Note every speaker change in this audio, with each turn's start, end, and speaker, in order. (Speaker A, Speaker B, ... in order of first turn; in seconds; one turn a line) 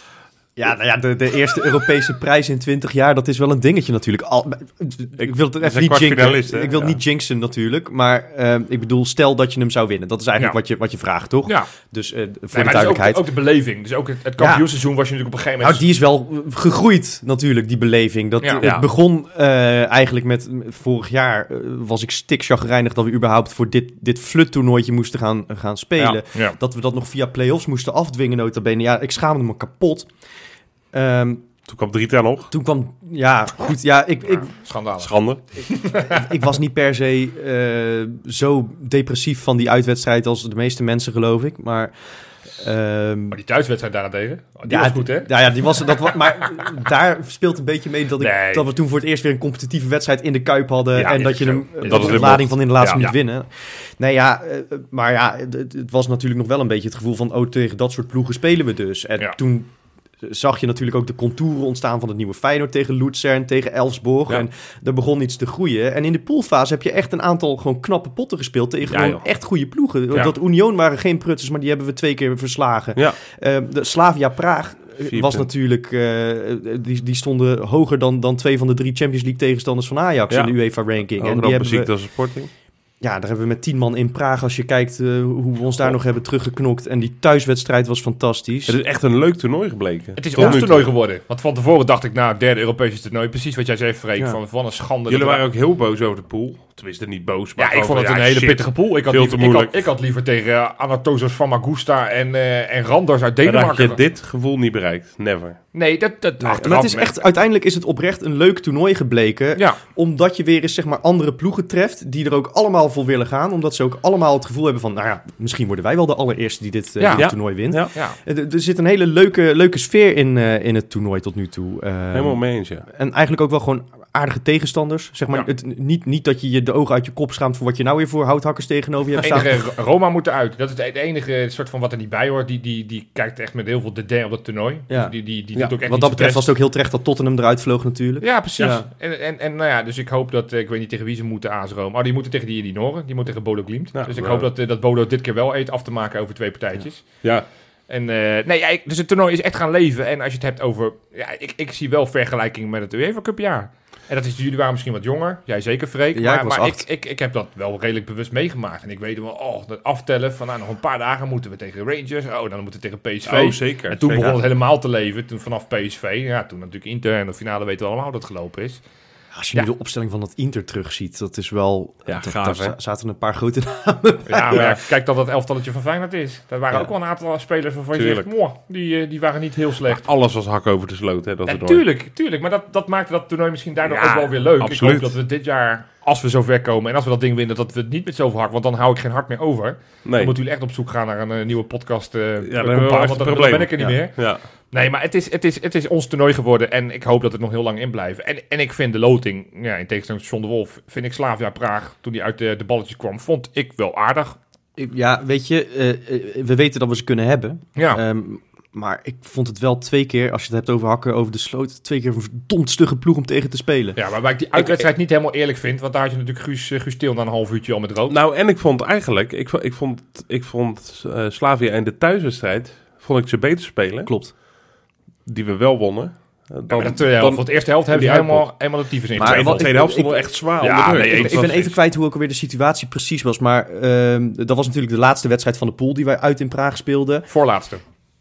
Speaker A: 0.6-13.2
Speaker B: 5.2-7.0
Speaker C: 12.5-15.8
Speaker A: 14.4-14.7
Speaker A: 15.6-30.1
Speaker C: 18.4-18.6
Speaker B: 18.6-18.9
Speaker A: 30.9-31.5
Speaker B: 31.7-32.5
Speaker A: 32.5-34.5
Speaker C: 34.4-35.1
Speaker B: 35.0-35.4
Speaker C: 35.7-36.3
Speaker A: 35.8-41.9
Speaker A: 42.5-43.4
Speaker C: 43.3-46.1
Speaker A: 44.6-59.7
Speaker C: 48.2-48.7
Speaker C: 50.9-53.1
Speaker B: 51.1-52.8
Speaker A: 60.2-81.9
Speaker B: 68.8-69.2
Speaker B: 75.1-75.5
Speaker B: 81.2-82.5
Speaker A: 83.0-88.8
Speaker B: 88.7-90.9
Speaker C: 90.2-95.4
Speaker B: 95.1-99.8
Speaker C: 97.6-104.0
Speaker B: 103.4-105.6
Speaker C: 105.7-107.2
Speaker A: 106.4-129.6
Speaker C: 117.0-117.3
Speaker B: 117.2-117.9
Speaker B: 122.1-122.8
Speaker C: 129.2-136.5
Speaker A: 134.9-138.9
Speaker C: 138.2-147.1
Speaker B: 143.9-144.5
Speaker C: 147.9-168.8
Speaker A: 156.1-156.9
Speaker B: 163.2-164.4
Speaker A: 169.3-174.7
Speaker B: 172.1-172.7
Speaker C: 174.3-180.1
Speaker B: 174.5-174.8
Speaker B: 177.9-178.3
Speaker B: 179.9-181.8
Speaker C: 181.5-194.2
Speaker B: 183.8-185.2
Speaker B: 190.0-190.3
Speaker B: 192.4-194.4
Speaker C: 194.7-204.4
Speaker A: 204.8-214.0
Speaker C: 207.8-208.0
Speaker C: 213.9-218.2
Speaker B: 214.6-214.8
Speaker B: 218.1-224.1
Speaker A: 224.0-224.3
Speaker B: 225.2-228.5
Speaker C: 226.7-229.7
Speaker A: 229.2-230.2
Speaker B: 229.2-231.7
Speaker C: 230.6-231.7
Speaker A: 231.1-237.3
Speaker C: 237.3-237.8